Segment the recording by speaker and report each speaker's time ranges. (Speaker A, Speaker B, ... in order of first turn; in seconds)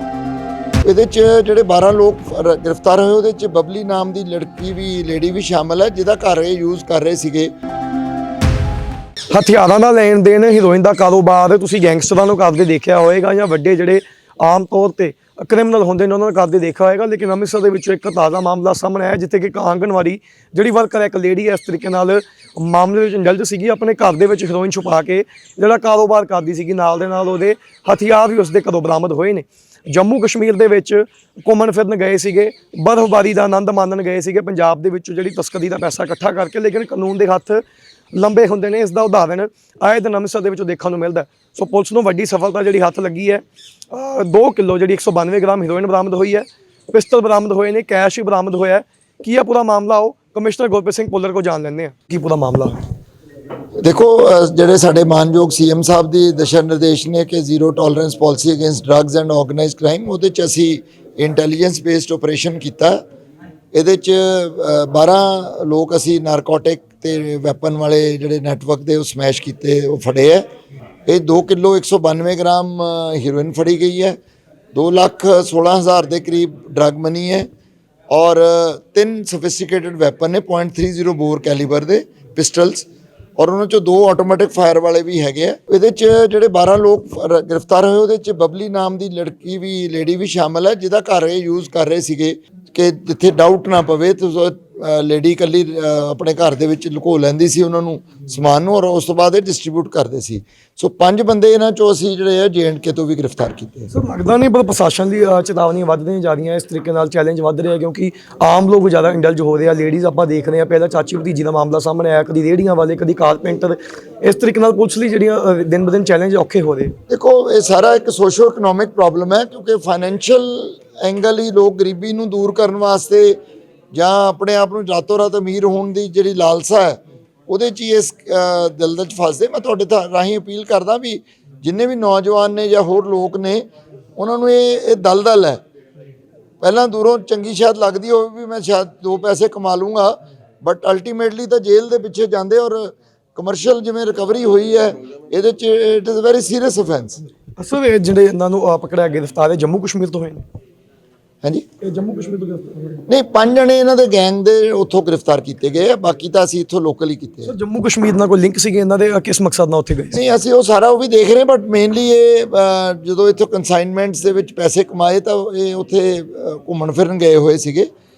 Speaker A: 0.8-7.5, 53.8-63.0, 63.7-70.5, 71.1-74.2, 74.7-77.5, 78.1-103.9, 117.1-123.4, 123.9-133.7, 134.2-135.6, 136.6-147.2, 153.1-157.5, 160.1-167.9
Speaker B: 9.3-52.9, 103.9-117.0, 147.6-150.4, 151.8-153.1, 157.4-160.2